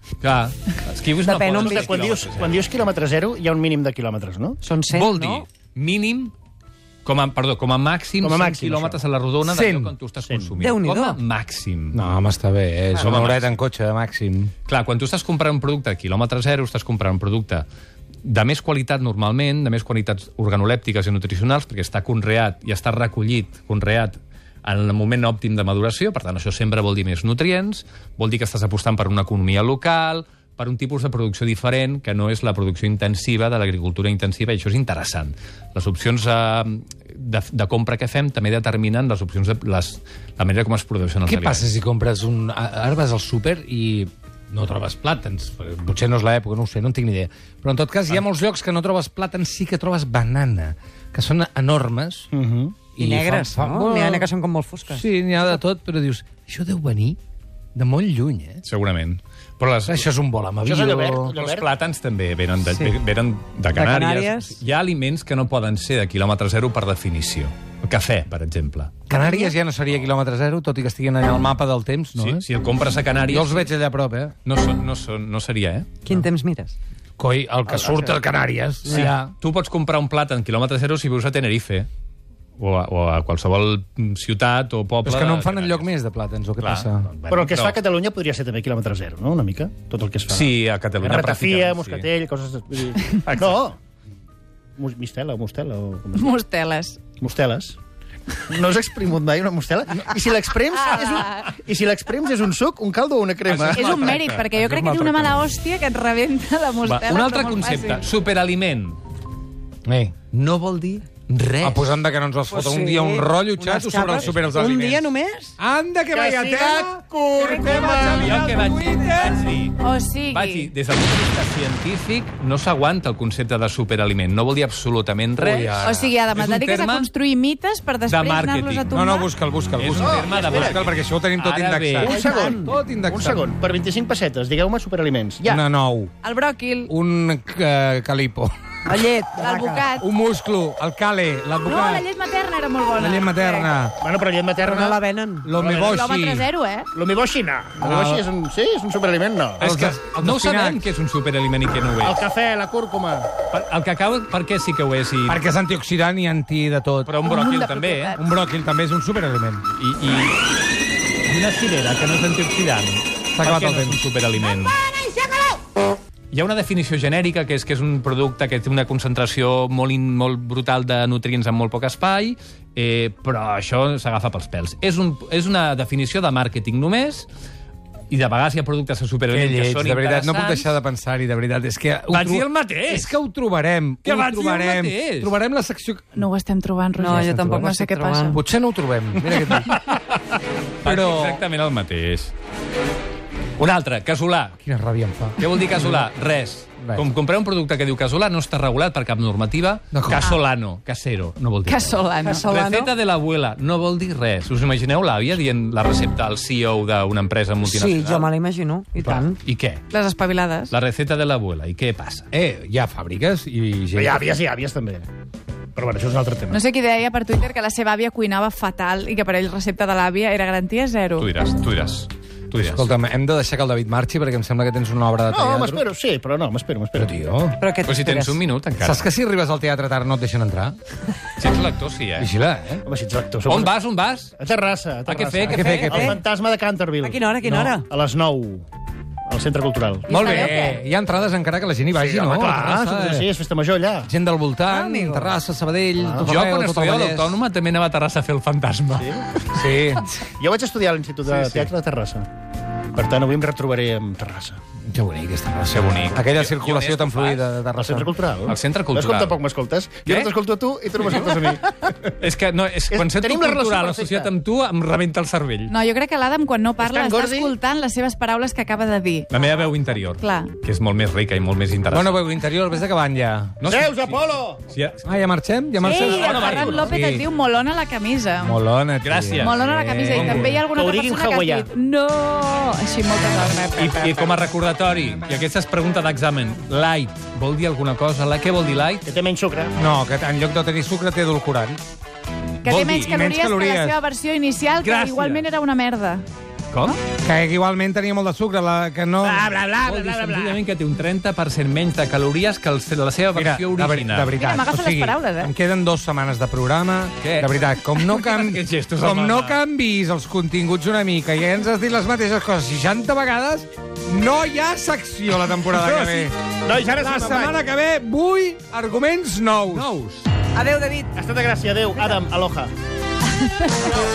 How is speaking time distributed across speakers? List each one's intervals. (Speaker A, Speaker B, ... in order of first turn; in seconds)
Speaker A: 0.2-2.6, 4.9-6.3, 7.0-12.0, 12.9-13.5, 14.7-17.6, 18.2-41.7, 58.6-60.1, 61.3-69.0, 72.1-73.7, 74.4-76.1, 78.9-81.9, 82.6-85.9, 86.6-87.8, 90.3-92.1, 93.2-93.6, 103.4-105.4, 106.8-109.0, 110.3-112.0, 118.1-119.8, 120.3-127.1, 128.1-128.9, 129.8-132.2, 149.6-152.2, 153.5-155.4, 157.0-158.2, 159.7-160.4, 161.2-164.8, 166.3-177.3, 178.1-180.8, 182.1-183.2, 184.0-185.3, 189.2-192.3, 193.6-194.6, 195.4-208.3, 209.4-209.8, 210.7-212.3, 221.2-222.9, 227.8-229.1, 231.4-232.3, 233.4-234.4, 235.0-236.0, 246.2-249.6, 251.3-251.7, 255.7-257.5, 258.4-259.4, 260.0-260.3, 261.0-261.5, 262.1-265.7, 269.3-272.2, 273.6-275.2, 275.9-277.0, 279.0-279.5, 280.1-280.6, 283.7-289.1, 292.6-293.1, 294.8-295.4, 296.7-296.9, 299.2-304.4, 307.2-309.6, 319.6-320.3
Speaker B: 1.2-4.6, 8.2-9.0, 10.2-10.6, 52.3-52.8, 60.6-61.7, 87.3-93.8, 94.8-96.4, 97.2-97.8, 98.5-104.2, 116.1-118.4, 129.9-130.8, 132.0-135.6, 144.0-145.0, 145.6-146.0, 146.9-149.6, 152.0-153.3, 213.9-215.1, 215.7-216.6, 225.3-227.1, 232.8-233.7, 234.4-238.7, 239.3-240.5, 241.9-244.1, 246.0-246.3, 249.0-249.2, 250.3-252.3, 252.9-254.6, 257.8-262.0, 262.9-264.3, 266.8-267.5, 273.6-274.6, 276.1-276.8, 280.2-281.7, 289.1-289.8, 315.9-317.6, 321.1-322.7
Speaker C: 1.3-1.9, 4.6-5.5, 10.6-11.2, 53.0-55.0, 62.6-63.0, 63.7-64.6, 69.1-69.5, 76.0-76.8, 77.8-78.1, 112.5-115.5, 132.0-132.7, 138.8-139.8, 144.6-145.5, 187.0-188.4, 202.2-202.9, 207.6-209.4, 227.6-228.4, 235.4-236.2, 237.0-237.9, 244.7-245.3, 320.6-321.0
Speaker D: 9.4-9.9, 11.9-14.5, 41.2-52.3, 53.0-54.3, 54.9-57.2, 57.7-58.6, 59.9-61.3, 69.1-72.4, 73.3-74.3, 77.2-79.3, 85.0-87.1, 109.8-110.1, 111.6-119.5, 125.4-126.0, 128.9-133.4, 135.4-136.1, 136.9-138.5, 140.0-142.1, 143.0-143.9, 145.4-146.5, 147.8-148.2, 149.6-150.9, 155.2-157.2, 158.2-159.6, 163.3-164.0, 179.3-186.2, 187.2-187.6, 188.3-189.8, 190.8-191.4, 194.6-196.0, 199.9-200.2, 209.0-209.2, 212.3-214.2, 222.6-225.8, 226.9-227.6, 228.8-230.8, 232.2-232.8, 235.4-236.2, 240.1-243.3, 244.1-247.3, 249.5-250.1, 254.9-258.1, 271.9-273.6, 275.0-277.2, 278.4-280.6, 289.8-291.8, 293.0-294.0, 297.2-300.5, 303.3-316.3, 316.9-319.9
Speaker E: 96.1-97.0, 101.0-101.4, 103.7-108.0, 119.8-120.7, 125.8-129.3, 136.2-136.9, 139.4-140.1, 141.6-143.7, 145.7-146.9, 157.3-158.2, 186.2-188.4, 200.1-200.4, 201.7-202.5, 209.9-210.7, 216.5-221.3, 240.1-240.8, 265.7-269.4, 270.1-270.5, 275.8-278.6, 279.4-284.3, 292.6-296.2, 304.4-305.5, 323.3-323.9